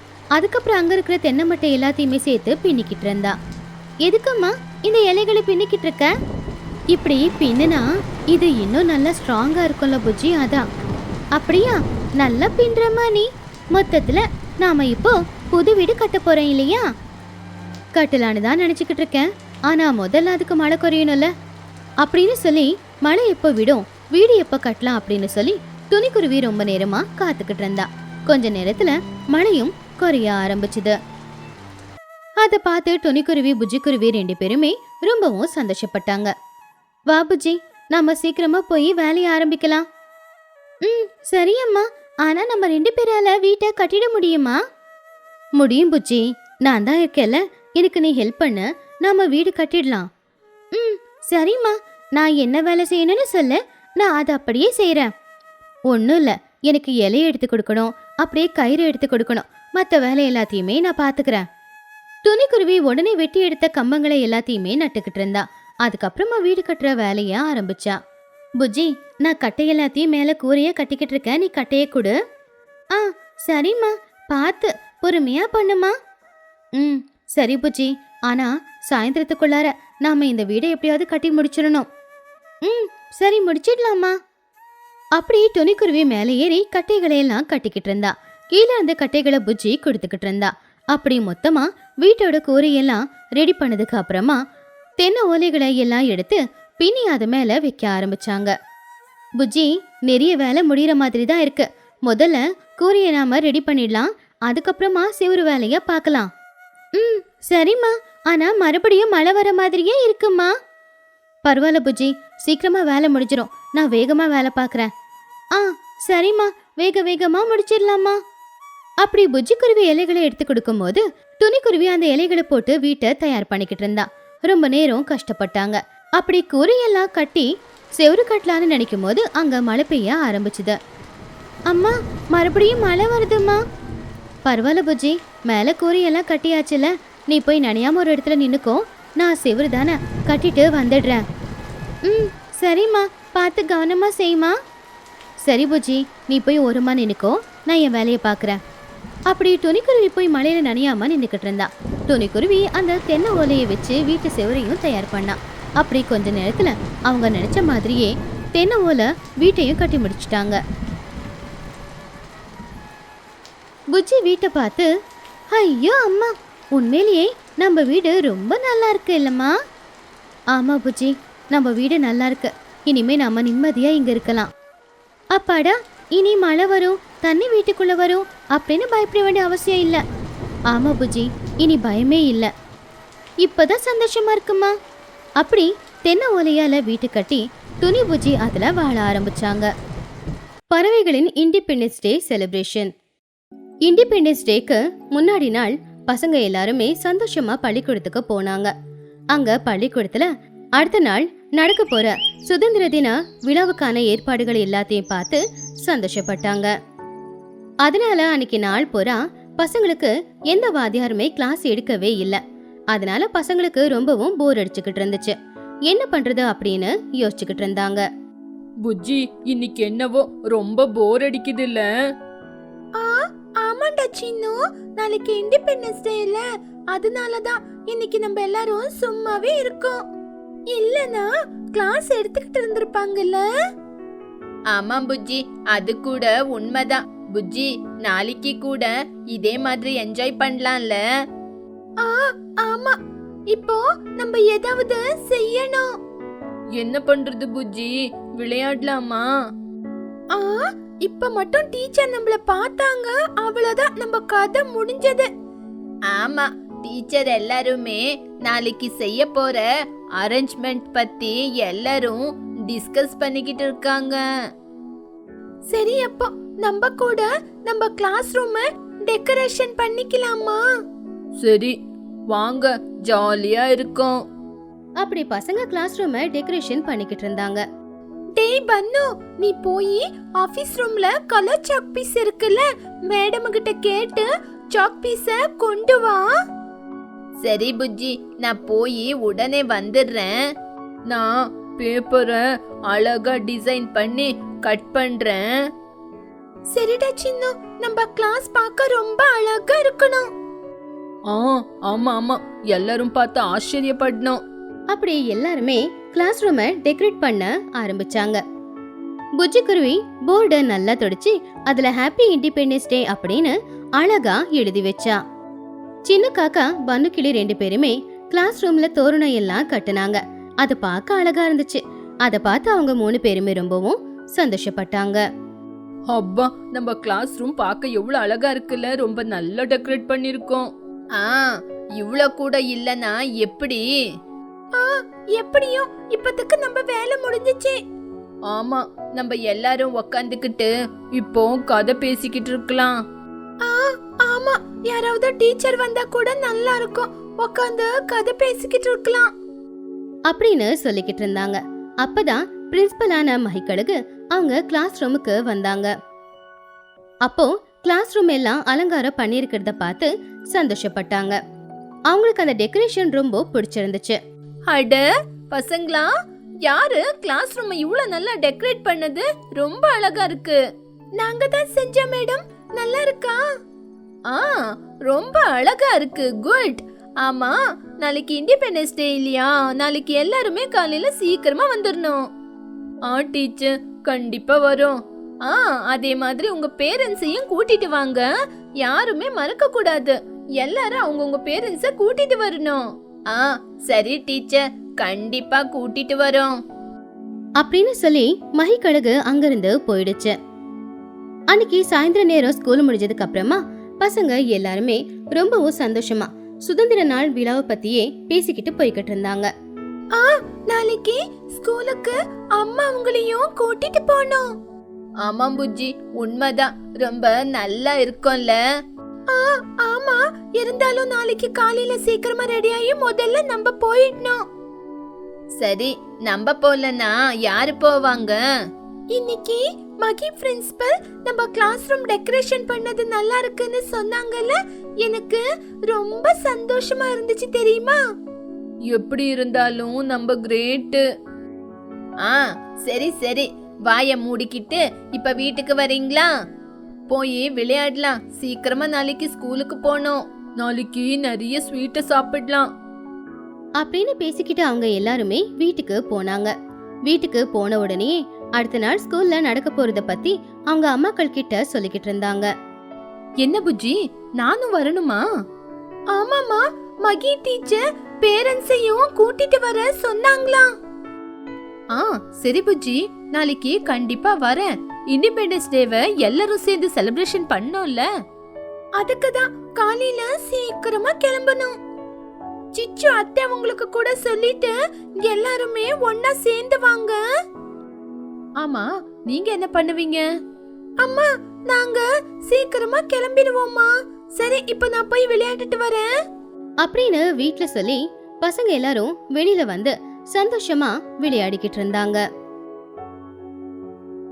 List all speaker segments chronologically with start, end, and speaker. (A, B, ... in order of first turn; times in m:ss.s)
0:00.4-0:03.3 A
0:04.0-0:06.1 A
0:06.9-0:10.6 A
0:11.4-0:16.8 A
0:18.0-0:21.3 A
0:22.0-0:30.9 A
0:32.4-0:36.3 A
0:37.1-0:39.8 A
0:40.8-0:44.6 A
0:45.6-0:50.1 A
0:50.7-0:55.1 A
0:55.9-1:01.4 A
1:02.2-1:08.0 A
1:08.6-1:12.1 A
1:12.9-1:15.9 A
1:16.8-1:21.8 A
1:22.6-1:24.1 A
1:25.2-1:34.4 A
1:35.0-1:38.5 A
1:39.4-1:46.3 A
1:47.0-1:50.5 A
1:51.4-1:54.9 A
1:55.5-1:58.2 A
1:59.0-2:07.5 A
2:08.0-2:10.8 A
2:11.7-2:13.6 A
2:14.4-2:21.2 A
2:22.1-2:24.5 A
2:25.4-2:28.6 A
2:29.3-2:40.6 A
2:43.9-2:44.9 A
2:45.5-2:49.5 A
2:50.5-2:54.5 A
2:55.3-3:00.0 A
3:00.7-3:02.5 A
3:03.4-3:04.7 A
3:05.4-3:09.7 A
3:10.7-3:12.9 A
3:13.8-3:18.7 A
3:19.3-3:26.7 A
3:27.8-3:32.4 A
3:32.9-3:35.4 A
3:35.9-3:38.0 A
3:38.8-3:41.9 B
3:43.0-3:50.0 C
3:50.7-3:53.4 C
3:54.7-4:01.0 B
4:02.0-4:03.0 C
4:03.5-4:05.9 C
4:06.8-4:09.3 B
4:10.3-4:15.3 C
4:16.1-4:24.2 B
4:25.7-4:30.6 C
4:31.4-4:31.7 B
4:32.3-4:34.2 B
4:35.0-4:37.6 A
4:38.4-4:46.2 C
4:47.4-4:50.4 B
4:51.1-4:55.4 B
4:56.7-5:00.3 C
5:01.3-5:04.4 B
5:04.9-5:08.4 A
5:09.4-5:15.2 A
5:16.0-5:25.2 A
5:26.1-5:33.8 B
5:34.8-5:37.8 C
5:38.5-5:43.0 B
5:43.6-5:49.3 C
5:50.3-5:55.9 A
5:57.2-6:01.4 A
6:02.1-6:04.2 A
6:04.7-6:06.1 B
6:06.6-6:10.6 B
6:11.2-6:13.4 C
6:14.3-6:14.6 B
6:15.1-6:22.2 B
6:23.1-6:28.2 B
6:28.8-6:36.5 B
6:37.6-6:40.4 A
6:41.5-6:49.5 A
6:50.1-6:54.4 C
6:55.2-6:58.6 B
6:59.3-7:04.4 C
7:05.6-7:08.4 B
7:09.1-7:18.0 C
7:18.9-7:21.0 B
7:22.2-7:26.3 B
7:27.1-7:32.7 B
7:33.8-7:36.5 A
7:37.1-7:42.5 A
7:43.4-7:45.2 B
7:46.1-7:50.7 C
7:51.9-7:58.0 B
7:59.0-8:01.7 C
8:02.7-8:07.2 C
8:08.6-8:10.2 B
8:11.0-8:16.1 C
8:16.8-8:22.2 A